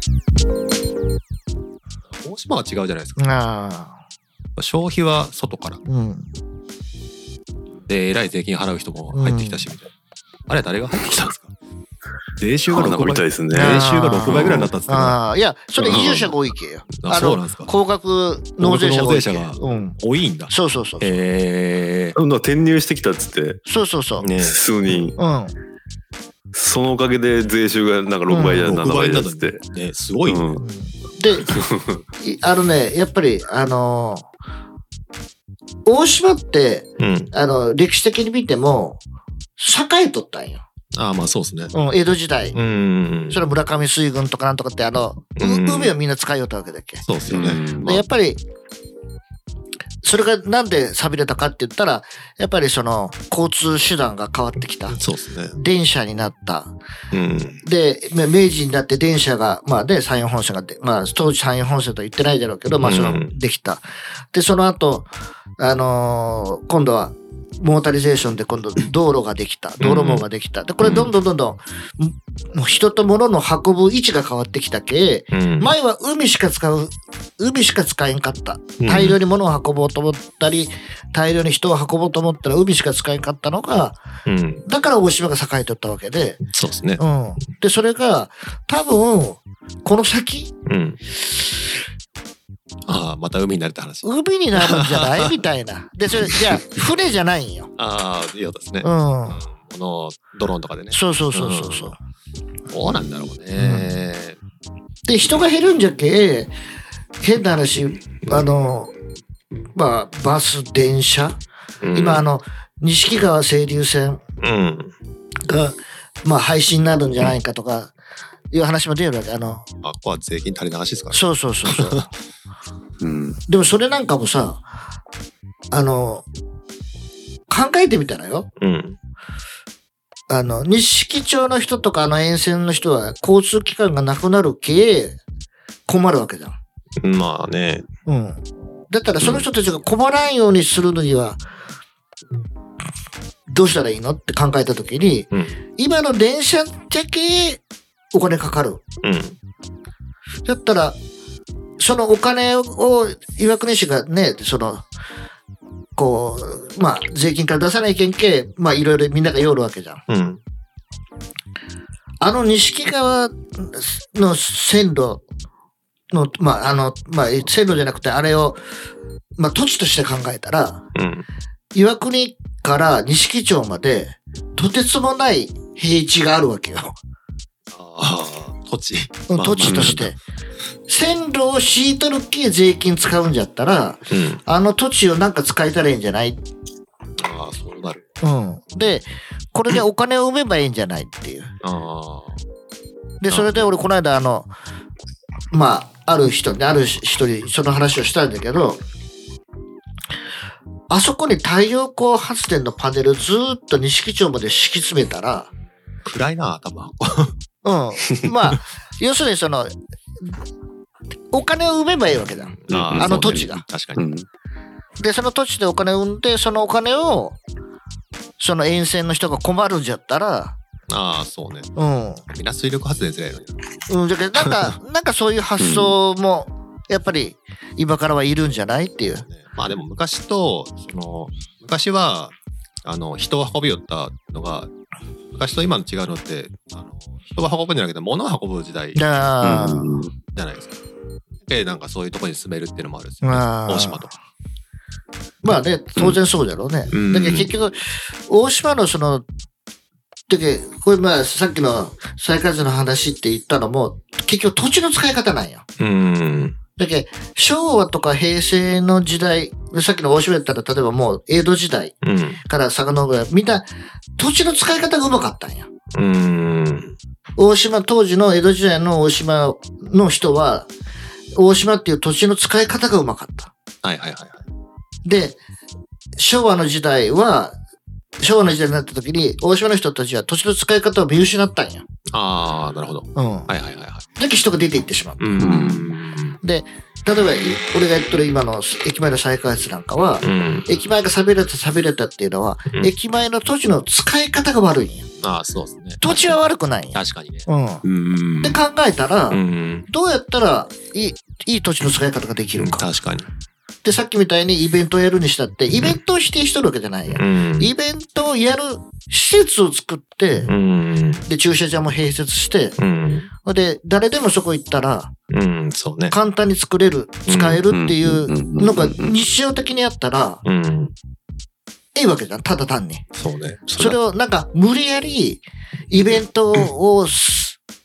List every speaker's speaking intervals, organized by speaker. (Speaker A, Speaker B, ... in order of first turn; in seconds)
Speaker A: 2.2-3.2, 4.6-5.8, 7.8-9.9, 10.5-11.5, 12.4-15.2, 15.8-16.2, 17.0-17.7, 18.6-22.1, 24.2-25.0, 28.6-30.5, 37.0-37.3, 40.9-41.7, 42.5-43.4, 45.4-45.9, 47.0-47.7, 54.9-55.5, 57.1-57.6, 62.7-63.3, 69.8-70.2, 70.8-71.1, 75.3-75.7, 78.8-79.2, 84.2-84.6, 86.5-87.0, 90.7-91.0, 92.8-95.4, 96.1-96.6, 97.8-101.9, 102.7-104.4, 111.8-112.2, 114.4-114.9, 119.8-122.0, 128.6-129.0, 137.0-137.9, 149.0-149.4, 160.1-160.4, 170.9-171.2, 177.7-180.2, 184.1-184.4, 187.2-188.0, 191.6-192.4, 193.3-193.7, 206.0-207.3, 208.1-208.5, 212.5-214.0, 220.9-221.7, 222.3-223.6, 229.2-234.7, 235.3-239.0, 240.3-240.8, 241.4-244.1, 246.9-247.5, 255.8-256.6, 262.0-262.4, 265.9-266.9, 273.8-274.4, 282.1-284.0, 285.2-286.4, 290.2-290.7, 295.2-296.4, 296.9-298.6, 299.3-299.9, 302.6-303.3, 307.1-307.7, 310.4-311.2, 312.8-313.3, 315.3-316.1, 317.3-317.6, 320.4-320.9, 323.1-324.0
Speaker B: 3.2-4.0, 5.8-6.3, 9.1-9.7, 13.5-19.9, 20.5-21.1, 23.6-24.3, 24.9-25.5, 28.3-28.7, 30.6-31.5, 32.2-34.3, 35.9-39.0, 39.6-40.6, 41.7-42.5, 43.3-47.0, 47.8-48.4, 50.0-55.0, 55.5-56.7, 57.6-84.0, 84.7-86.4, 87.0-90.5, 94.0-97.7, 98.8-99.4, 100.9-102.0, 103.6-103.9, 105.1-106.5, 107.2-108.9, 109.7-111.4, 111.9-114.2, 115.5-117.9, 118.5-119.6, 121.1-122.1, 123.5-124.6, 125.7-126.2, 127.5-128.5, 130.3-135.2, 135.9-136.6, 138.1-141.4, 143.5-147.6, 148.1-148.8, 150.4-151.0, 151.8-154.8, 155.9-160.0, 162.2-165.2, 166.1-168.6, 169.4-170.8, 171.7-176.9, 179.3-180.2, 180.9-186.4, 188.2-191.5, 193.2-194.5, 195.5-198.8, 200.9-205.5, 207.6-210.4, 211.3-213.6, 215.0-217.4, 218.4-220.6, 221.8-222.2, 223.9-229.2, 238.9-239.9, 243.2-244.1, 245.4-249.2, 250.3-255.6, 256.8-261.9, 262.4-263.6, 264.2-265.7, 267.4-270.7, 271.3-273.5, 275.0-275.4, 276.2-277.6, 278.2-281.8, 283.1-283.5, 284.2-285.2, 286.4-295.1, 296.0-297.8, 298.4-302.8, 303.8-310.5, 311.3-312.8, 313.4-315.1, 316.1-320.4, 321.9-323.0, 323.8-327.6
Speaker C: 12.7-14.7, 15.8-16.3, 22.1-23.6, 24.4-25.2, 26.5-29.6, 30.2-30.6, 31.4-32.0, 47.3-48.0, 123.0-123.4, 179.6-180.0, 212.7-213.4, 213.9-214.2, 225.6-225.9, 239.4-240.1, 285.4-285.9, 317.7-319.2